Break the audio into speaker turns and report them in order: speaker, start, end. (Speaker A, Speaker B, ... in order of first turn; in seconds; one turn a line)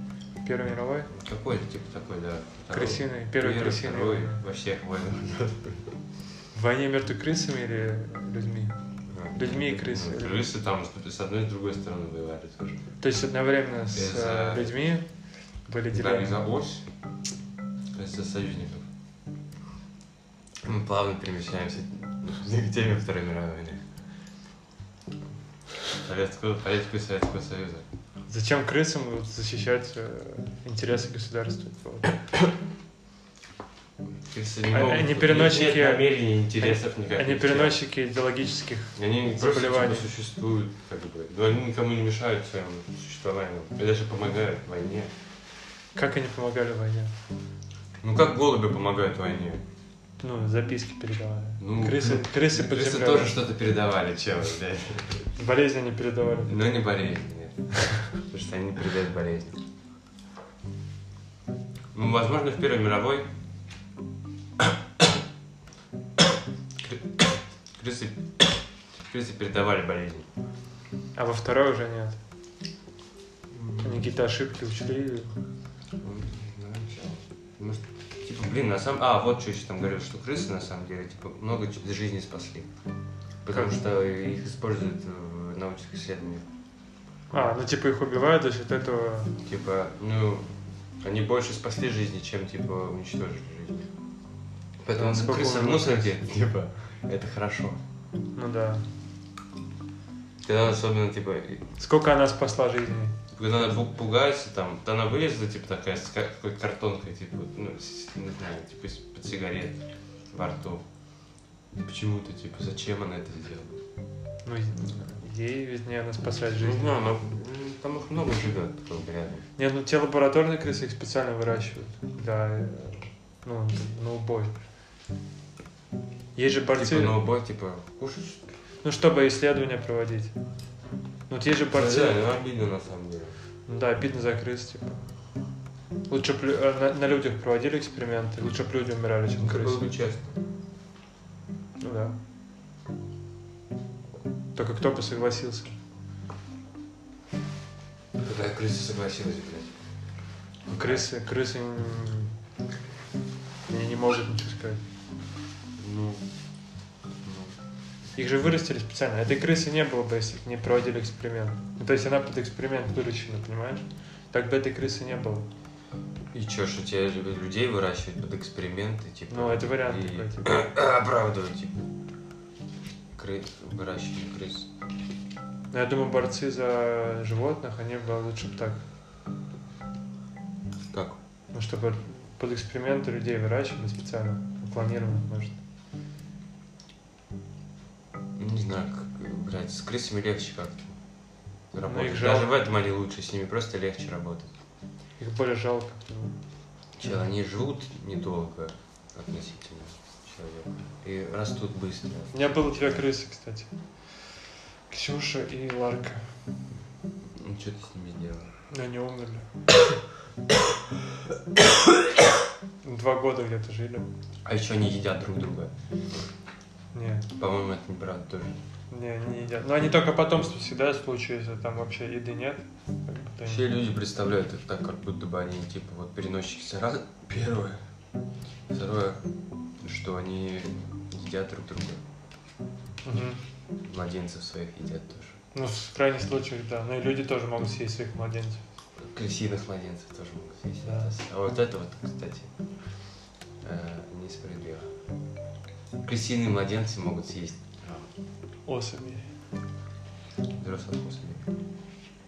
Speaker A: 0.4-1.1
Speaker B: 1.1-5.9
Speaker A: 2.7-4.4
Speaker A: 6.5-8.8
Speaker B: 9.1-12.8
Speaker A: 9.3-10.4
Speaker A: 13.0-15.1
Speaker B: 13.9-14.8
Speaker A: 15.7-16.4
Speaker B: 15.9-16.9
Speaker B: 17.9-18.9
Speaker B: 20.6-23.8
Speaker B: 25.9-27.8
Speaker A: 28.3-32.2
Speaker B: 34.0-37.8
Speaker A: 34.7-40.1
Speaker B: 38.9-45.1
Speaker A: 45.9-47.1
Speaker B: 48.0-49.6
Speaker A: 50.2-53.4
Speaker B: 51.6-55.2
Speaker A: 55.4-56.6
Speaker B: 56.5-59.6
Speaker B: 61.9-63.3
Speaker B: 66.8-70.3
Speaker A: 71.1-72.2
Speaker B: 73.5-74.1
Speaker A: 73.8-75.3
Speaker B: 76.0-82.7
Speaker B: 83.4-86.4
Speaker A: 83.5-83.8
Speaker A: 87.3-89.3
Speaker B: 89.4-90.5
Speaker B: 91.0-93.9
Speaker B: 94.8-97.8
Speaker A: 94.9-96.1
Speaker A: 98.3-98.8
Speaker B: 100.4-101.7
Speaker A: 101.8-103.2
Speaker B: 103.3-110.8
Speaker B: 111.8-113.8
Speaker A: 114.4-117.0
Speaker B: 116.6-119.4
Speaker A: 119.6-124.5
Speaker A: 126.3-127.2
Speaker B: 126.7-128.4
Speaker A: 128.8-130.3
Speaker A: 131.3-132.2
Speaker B: 131.7-133.3
Speaker A: 133.7-135.0
Speaker A: 136.1-139.8
Speaker B: 139.4-140.3
Speaker A: 141.8-142.2
Speaker A: 144.5-145.8
Speaker B: 148.2-149.7
Speaker B: 150.7-151.1
Speaker A: 150.7-152.3
Speaker A: 153.7-154.8
Speaker B: 155.8-156.2
Speaker B: 157.2-157.5
Speaker A: 158.2-165.5
Speaker B: 166.3-171.8
Speaker A: 169.3-170.6
Speaker B: 173.1-174.7
Speaker A: 175.7-178.8
Speaker B: 180.9-181.2
Speaker A: 181.5-185.6
Speaker B: 188.4-190.9
Speaker B: 191.7-194.5
Speaker A: 191.8-192.5
Speaker A: 195.2-196.3
Speaker B: 197.0-203.0
Speaker A: 202.3-204.3
Speaker A: 204.9-206.3
Speaker B: 207.3-208.5
Speaker A: 208.7-209.5
Speaker A: 212.8-214.1
Speaker B: 214.4-215.7
Speaker A: 216.9-217.3
Speaker B: 217.3-218.6
Speaker A: 218.9-223.6
Speaker B: 223.4-227.8
Speaker B: 228.7-229.2
Speaker B: 229.8-232.0
Speaker A: 233.0-233.4
Speaker B: 233.8-235.4
Speaker A: 235.5-238.6
Speaker B: 239.0-242.5
Speaker A: 240.8-241.1
Speaker B: 243.6-244.9
Speaker B: 246.0-248.1
Speaker A: 248.7-249.3
Speaker B: 250.6-251.4